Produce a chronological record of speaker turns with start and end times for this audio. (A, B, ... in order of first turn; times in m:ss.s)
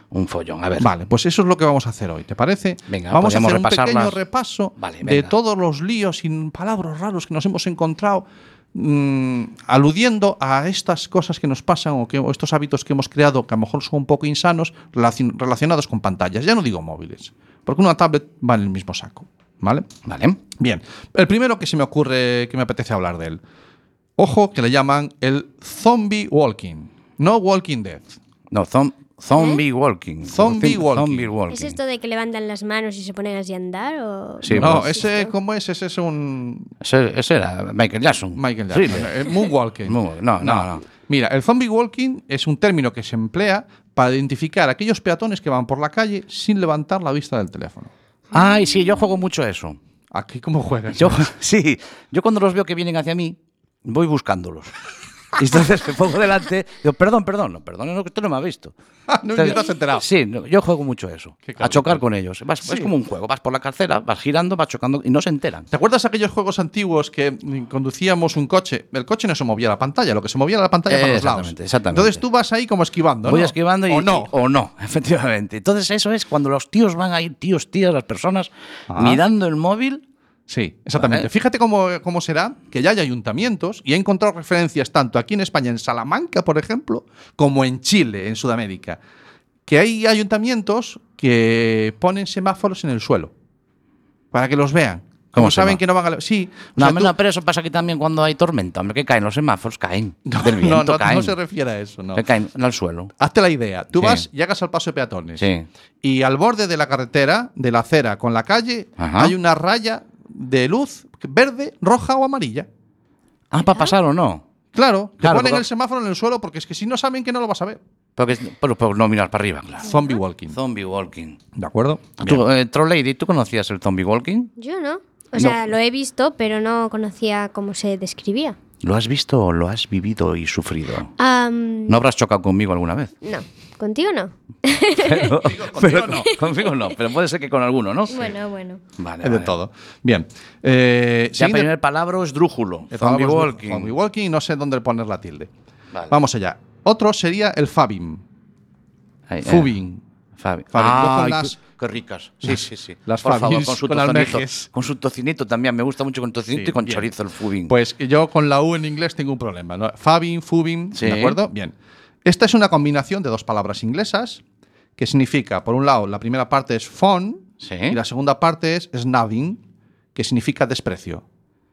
0:00.1-0:00.9 A
0:00.8-0:19.9 B
0:02.9-0:04.2 A
0:04.8-0:05.3 A
0:20.0-0:20.4 A
0:20.6-0:23.4 B
0:24.2-0:28.2 B
0:28.5-0:31.8 A
0:29.4-0:29.6 C
0:30.3-0:31.3 B
0:31.5-0:35.3 C
0:34.4-0:34.9 A
0:34.5-0:36.7 B
0:36.8-0:39.3 A
0:38.4-0:47.9 B
0:39.9-0:40.8 A
0:48.3-0:49.8 A
0:50.1-0:51.2 B
0:51.0-0:54.7 A
0:55.4-0:58.7 A
0:59.1-1:00.1 B
0:59.3-1:05.7 A
1:01.5-1:02.0 B
1:02.6-1:02.9 B
1:05.7-1:14.3 B
1:10.9-1:12.2 A
1:13.2-1:20.0 A
1:18.9-1:19.2 B
1:20.5-1:29.0 B
1:21.0-1:21.3 A
1:29.7-1:33.3 B
1:34.3-1:37.1 B
1:35.3-1:35.8 A
1:36.8-1:41.3 A
1:40.3-1:42.2 B
1:42.2-1:43.1 A
1:43.2-1:45.5 B
1:43.9-1:44.2 A
1:45.4-1:45.7 A
1:46.0-1:52.7 B
1:49.0-1:49.3 A
1:53.5-1:54.4 A
1:54.7-1:57.8 B
1:55.2-1:55.6 A
1:58.2-1:59.9 A
1:59.8-2:00.6 B
2:00.5-2:01.4 A
2:01.6-2:02.4 B
2:02.2-2:04.5 A
2:04.6-2:08.6 C
2:08.8-2:11.1 A
2:11.2-2:12.0 C
2:11.9-2:13.1 A
2:13.2-2:15.4 C
2:15.0-2:18.3 A
2:15.4-2:16.4 B
2:18.1-2:18.8 C
2:19.0-2:19.6 A
2:19.2-2:21.7 B
2:21.4-2:23.9 A
2:22.9-2:25.5 B
2:26.1-2:28.2 B
2:29.3-2:29.7 A
2:29.4-2:30.0 B
2:30.4-2:37.8 A
2:30.7-2:31.6 B
2:32.4-2:34.7 B
2:36.5-2:37.1 B
2:37.7-2:44.4 B
2:41.0-2:41.4 A
2:45.0-2:49.6 B
2:47.6-2:48.0 A
2:50.2-2:51.2 B